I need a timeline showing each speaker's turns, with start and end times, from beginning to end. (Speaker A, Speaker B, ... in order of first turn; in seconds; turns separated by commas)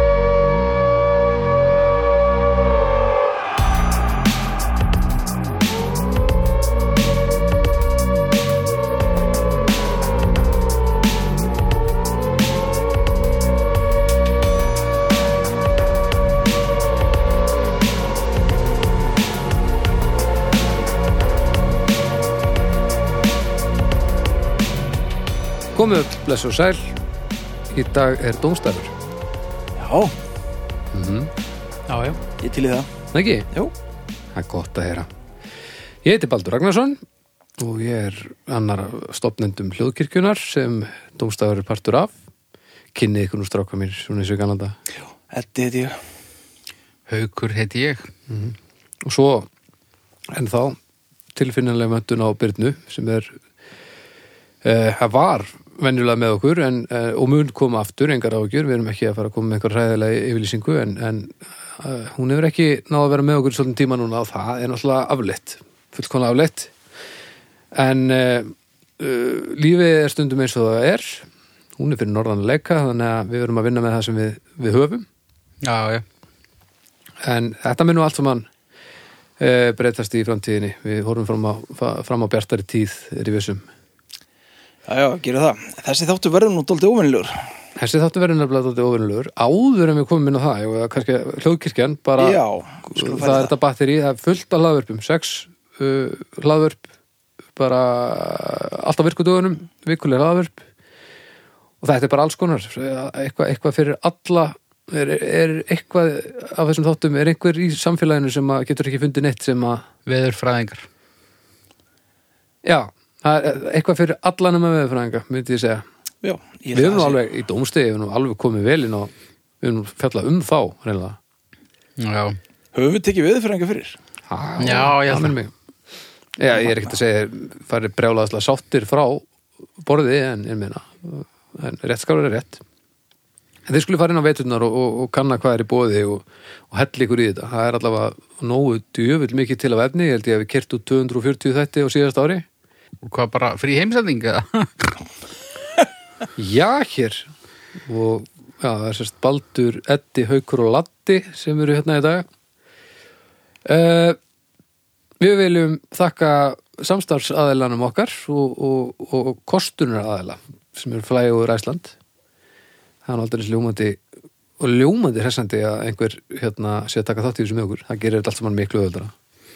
Speaker A: 25.7-26.9, Speaker A: 27.7-28.9, Speaker B: 29.8-30.1, Speaker A: 30.9-31.3, Speaker C: 31.9-32.2, Speaker B: 32.4-32.9, Speaker A: 33.1-33.5, Speaker A: 34.3-35.1, Speaker A: 36.0-37.0, Speaker A: 37.6-42.1, Speaker A: 42.9-44.8, Speaker B: 45.3-46.0, Speaker C: 47.1-48.1, Speaker A: 48.3-49.5, Speaker A: 50.3-50.8, Speaker A: 51.3-53.4, Speaker A: 54.6-66.7, Speaker A: 67.7-75.0, Speaker C: 75.6-76.0, Speaker A: 77.2-78.5, Speaker A: 79.4-83.7, Speaker B: 84.9-87.4, Speaker A: 87.8-92.4, Speaker B: 92.2-93.5, Speaker A: 92.9-96.8, Speaker A: 97.5-100.6, Speaker A: 101.8-109.8, Speaker C: 110.0-110.9, Speaker A: 112.6-115.8, Speaker B: 116.2-117.2, Speaker A: 116.7-121.2, Speaker C: 122.0-122.4, Speaker B: 122.7-124.0, Speaker A: 124.3-125.5, Speaker C: 124.6-125.3, Speaker A: 126.4-129.2, Speaker A: 129.8-132.6, Speaker A: 133.7-142.4, Speaker C: 143.0-145.0, Speaker A: 146.4-147.3, Speaker A: 147.9-152.2, Speaker A: 153.7-154.2, Speaker A: 155.2-161.9, Speaker A: 163.0-164.0, Speaker A: 164.6-169.1